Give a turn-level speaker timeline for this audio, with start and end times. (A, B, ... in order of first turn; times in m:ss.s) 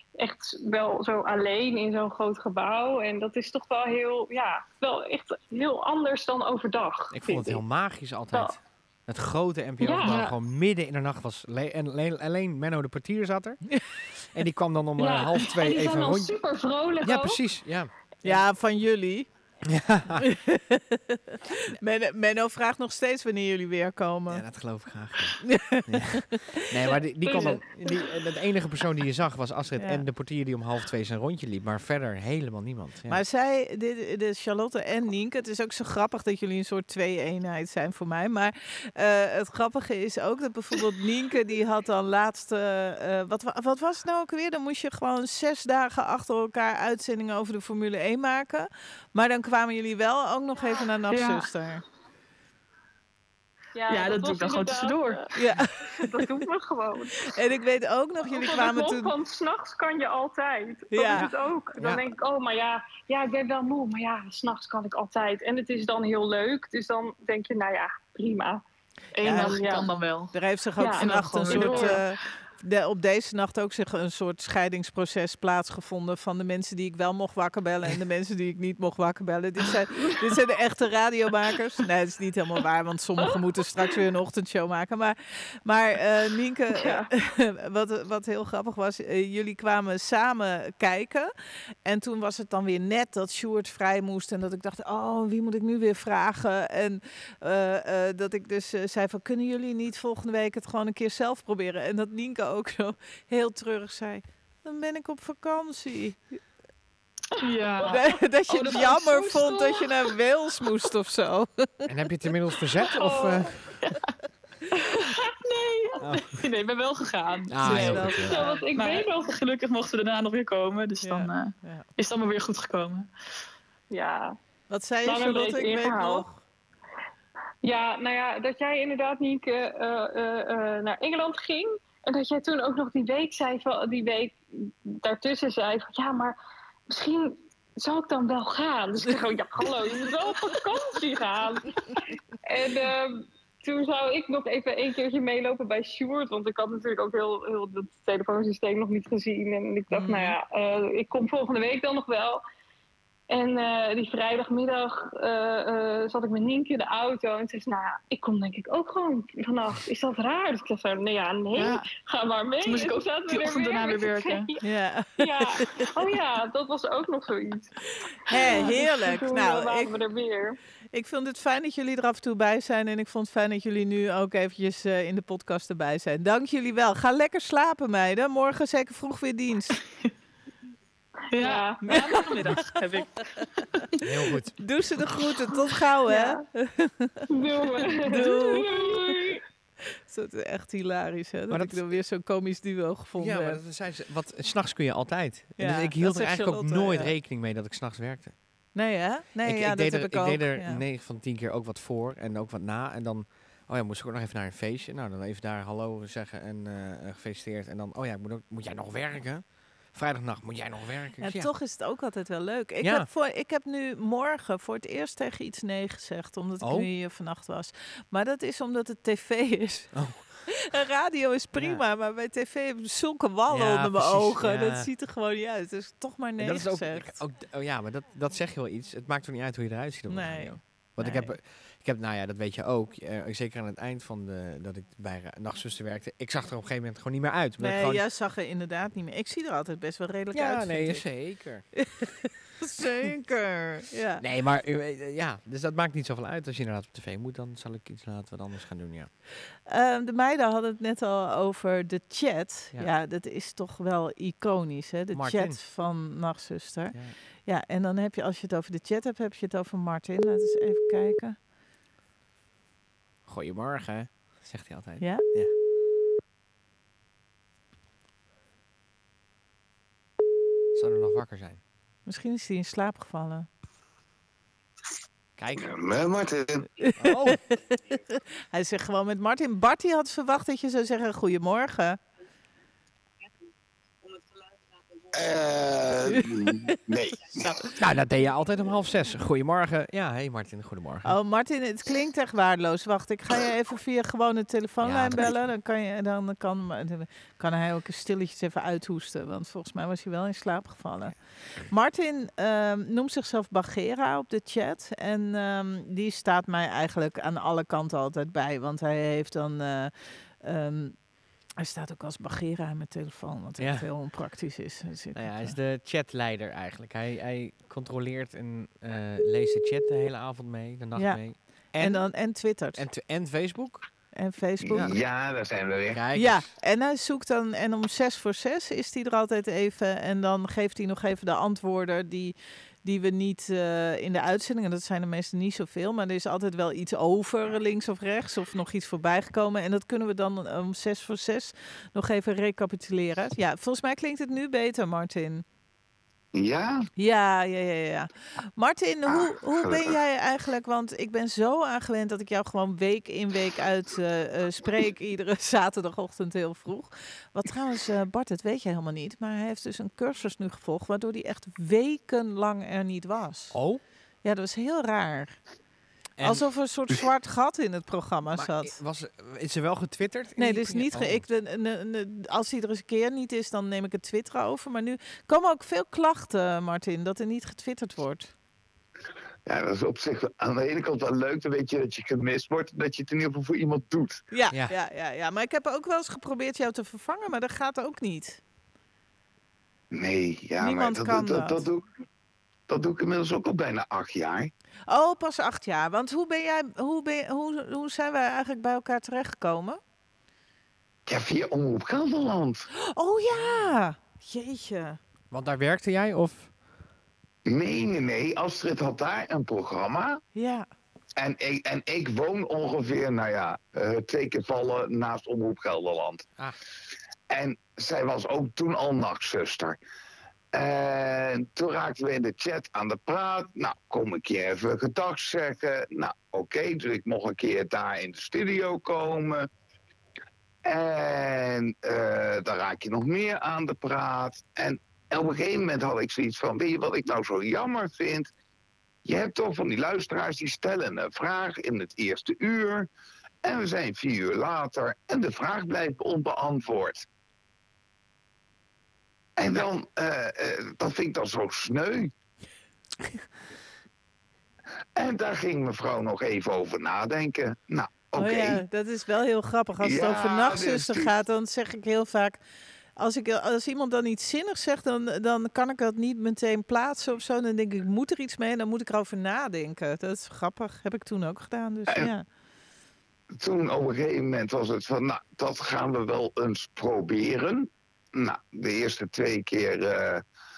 0:00.2-0:07.6 A
0:07.1-0:16.4 B
0:09.8-0:10.4 A
0:15.0-0:17.4 A
0:17.0-0:18.4 B
0:18.2-0:19.3 C
0:19.7-0:20.3 B
0:20.2-0:24.4 C
0:24.3-0:33.2 B
0:25.4-0:26.9 C
0:27.3-0:27.6 A
0:29.8-0:30.0 C
0:33.1-0:51.8 C
0:51.1-0:51.5 D
0:53.8-0:57.4 A
0:53.9-0:55.3 D
0:55.4-0:56.1 C
0:57.2-0:59.1 C
0:58.3-1:08.6 A
1:00.9-1:01.3 C
1:01.8-1:02.0 B
1:09.2-1:10.4 D
1:09.2-1:09.6 C
1:09.2-1:09.9 A
1:10.3-1:31.3 C
1:10.8-1:12.0 A
1:10.9-1:12.1 D
1:26.7-1:27.1 A
1:31.8-1:46.2 C
1:47.4-1:49.7 D
1:47.9-1:51.9 C
1:51.9-1:53.8 B
1:53.0-1:53.5 A
1:54.8-2:03.1 D
1:56.0-1:56.5 B
1:57.5-1:58.4 B
1:57.6-1:58.6 C
1:58.2-1:59.3 A
2:01.0-2:01.9 C
2:03.9-2:04.4 A
2:04.7-2:06.4 C
2:05.0-2:06.2 A
2:07.6-2:16.4 A
2:16.9-2:32.4 A
2:29.9-2:30.4 C
2:33.3-2:44.6 A
2:41.6-2:41.8 D
2:42.6-2:44.5 D
2:44.6-2:45.6 C
2:45.2-2:47.8 A
2:48.3-2:50.0 C
2:48.3-2:50.6 A
2:50.9-2:59.8 C
3:01.3-3:04.1 D
3:01.4-3:02.1 A
3:01.9-3:02.8 C
3:04.0-3:04.6 B
3:04.6-3:07.3 C
3:06.1-3:06.4 A
3:07.3-3:09.4 A
3:08.0-3:09.0 C
3:10.1-3:13.6 C
3:11.5-3:12.0 B
3:13.2-3:18.4 B
3:15.6-3:17.2 C
3:18.8-3:20.8 C
3:19.4-3:31.5 B
3:31.2-3:47.2 C
3:32.8-3:33.1 B
3:36.6-3:36.9 B
3:39.9-3:40.5 B
3:41.6-3:41.8 B
3:43.5-3:44.9 B
3:46.4-3:58.0 B
3:50.1-3:51.4 C
3:57.6-4:04.2 C
4:00.3-4:01.8 B
4:04.2-4:09.1 B
4:09.7-4:21.4 C
4:15.1-4:15.6 B
4:23.3-4:25.5 B
4:25.0-4:25.3 C
4:30.8-4:31.6 B
4:32.1-4:33.5 C
4:35.4-4:35.7 B
4:35.6-4:36.7 E
4:36.8-4:42.0 C
4:37.0-4:37.4 B
4:45.1-4:47.7 E
4:46.1-4:46.7 C
4:47.7-4:51.2 B
4:51.0-5:11.0 C
4:54.8-4:55.4 B
5:11.6-5:15.6 C
5:13.6-5:13.9 B
5:15.1-5:22.1 B
5:21.0-5:22.9 C
5:22.7-5:23.8 B
5:24.1-5:25.0 C
5:24.6-5:26.0 E
5:25.9-5:26.5 B
5:26.2-5:45.4 C
5:46.3-5:46.9 E
5:47.0-6:03.6 C
5:49.1-5:50.0 E
6:03.5-6:03.8 B
6:04.2-6:05.4 C
6:06.2-6:06.5 B
6:06.2-6:08.8 C
6:08.3-6:11.2 B
6:10.4-6:18.3 C
6:19.5-6:24.2 E
6:24.3-6:28.4 C
6:29.9-6:31.9 E
6:30.6-6:31.6 C
6:32.7-6:34.5 E
6:34.9-6:39.8 C
6:41.1-6:42.7 E
6:42.8-6:45.0 C
6:43.3-6:43.7 B
6:45.3-6:46.5 B
6:47.5-6:50.2 E
6:50.4-6:50.7 C
6:51.2-6:56.2 E
6:57.3-6:59.8 E
7:00.5-7:09.5 E
7:10.6-7:18.3 E
7:19.0-7:22.9 E
7:23.4-7:27.1 E
7:29.4-7:32.1 E
7:35.0-7:38.6 E
7:38.2-7:42.4 C
7:39.8-7:41.2 E
7:43.0-7:52.2 C
7:53.4-8:00.2 E